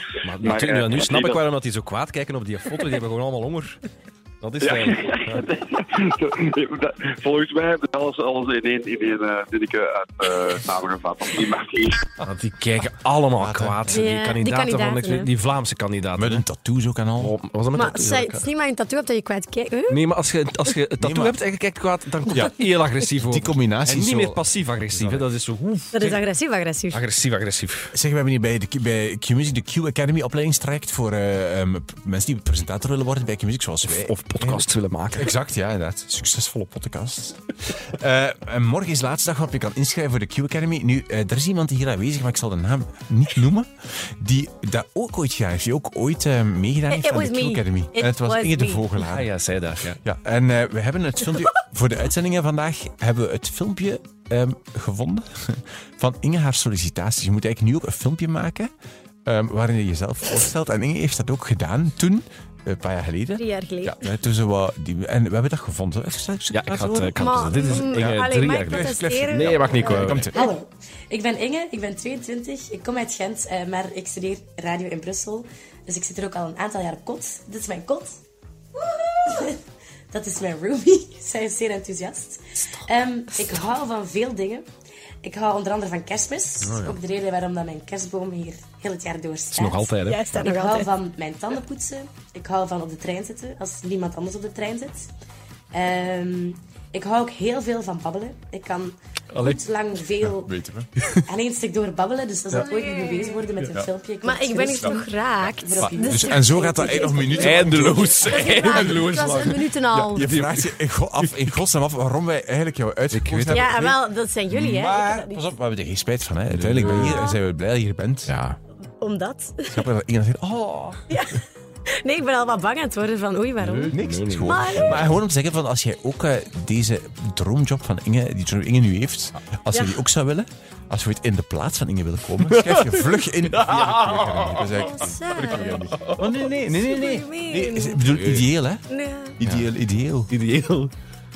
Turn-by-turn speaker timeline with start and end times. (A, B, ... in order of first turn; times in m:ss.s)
0:00.2-0:03.8 A
0:00.3-0:01.4 B
0:04.4-0:05.5 A
0:04.6-0:12.1 B
0:12.2-0:16.4 A
0:13.4-0:13.9 C
0:13.9-0:15.3 D
0:16.2-0:17.4 C
0:17.2-0:18.5 A
0:17.8-0:20.0 D
0:19.9-0:26.2 A
0:21.0-0:21.4 C
0:22.3-0:25.3 C
0:25.9-0:27.0 D
0:26.9-0:27.9 A
0:27.9-0:49.3 C
0:33.9-0:35.3 A
0:46.9-0:48.9 D
0:49.0-0:50.0 A
0:50.0-0:58.7 C
0:59.2-1:10.5 C
1:03.4-1:04.1 D
1:06.5-1:10.3 A
1:07.2-1:10.1 D
1:10.2-1:18.2 E
1:18.9-1:19.3 D
1:19.1-1:24.7 E
1:25.2-1:35.1 E
1:26.6-1:27.0 A
1:29.5-1:30.4 A
1:30.0-1:30.9 D
1:35.7-1:40.6 E
1:39.3-1:39.6 A
1:40.2-1:41.2 C
1:41.2-1:48.1 E
1:42.8-1:43.2 D
1:44.2-1:47.0 D
1:45.8-1:49.2 C
1:47.3-1:51.3 A
1:48.3-1:50.3 D
1:50.0-1:58.3 C
1:53.1-1:53.6 A
1:53.5-1:55.4 D
1:56.5-1:57.3 A
1:57.0-1:57.4 D
1:58.3-1:58.6 A
1:59.0-1:59.9 D
1:59.7-2:01.1 C
2:01.1-2:05.0 D
2:03.8-2:05.2 A
2:03.9-2:20.3 C
2:12.4-2:14.8 A
2:14.7-2:15.8 D
2:15.4-2:16.3 A
2:16.5-2:18.4 D
2:18.9-2:19.4 D
2:19.4-2:19.7 A
2:20.3-2:20.9 A